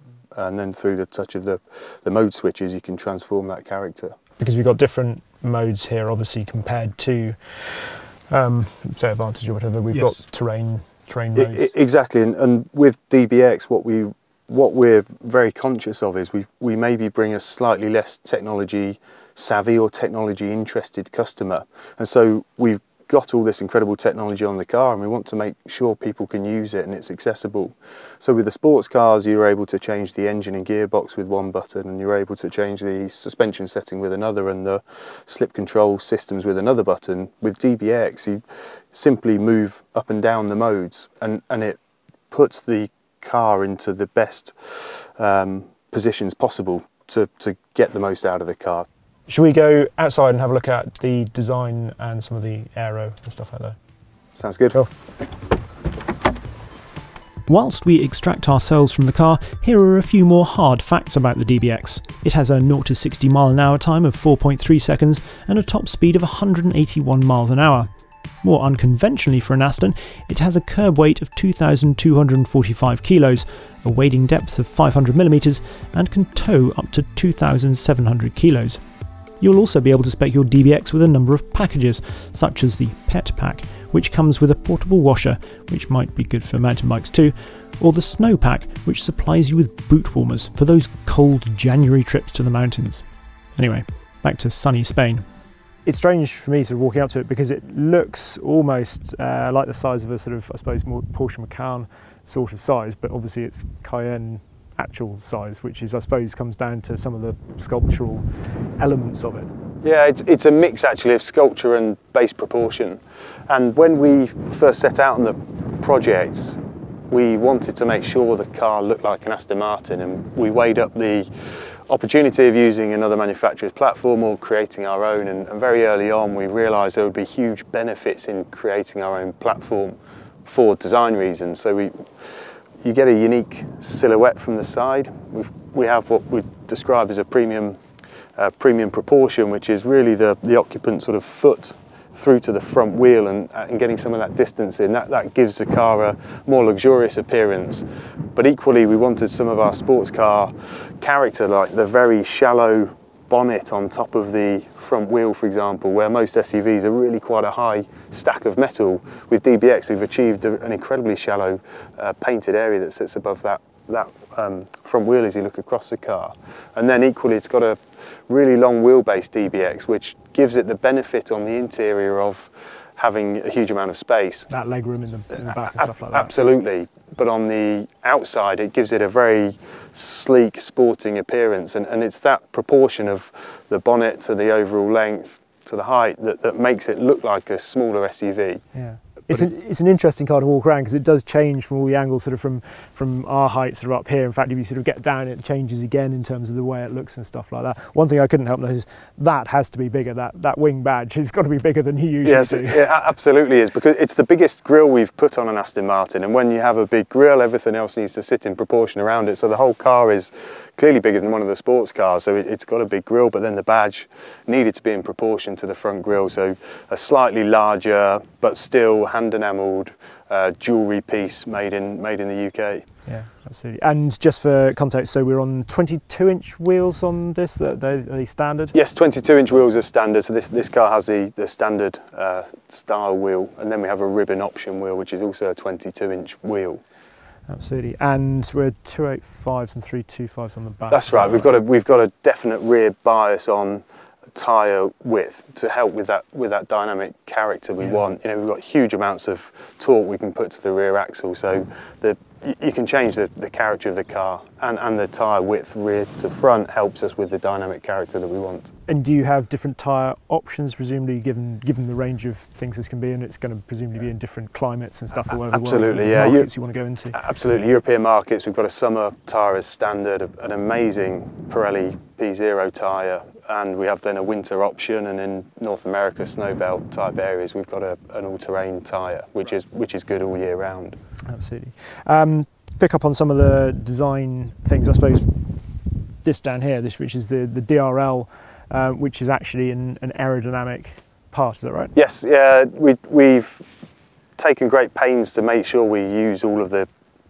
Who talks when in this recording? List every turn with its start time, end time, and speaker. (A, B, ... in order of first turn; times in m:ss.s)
0:00.3-0:04.2 A
0:04.4-0:11.7 B
0:09.9-0:10.2 A
0:11.4-0:41.8 A
0:42.3-0:48.9 A
0:49.3-0:53.8 B
0:54.4-0:54.8 A
0:57.5-1:07.9 C
1:08.4-1:18.8 C
1:19.4-1:33.0 C
1:33.6-1:35.2 C
1:35.8-1:48.3 B
1:48.8-1:49.5 B
1:49.8-1:56.6 A
1:57.1-2:12.0 A
2:12.8-2:17.8 A
2:18.4-2:54.5 A
2:54.5-2:56.3 B
2:55.5-3:08.6 A
3:08.7-3:22.8 B
3:22.2-3:42.8 A
3:43.1-3:48.7 B
3:48.7-3:56.8 A
3:57.5-4:01.5 B
4:00.9-4:18.7 A
4:18.9-4:27.2 B
4:25.3-4:26.5 A
4:27.1-4:41.0 A
4:41.3-4:51.9 B
4:51.9-4:53.6 A
4:54.4-4:56.9 A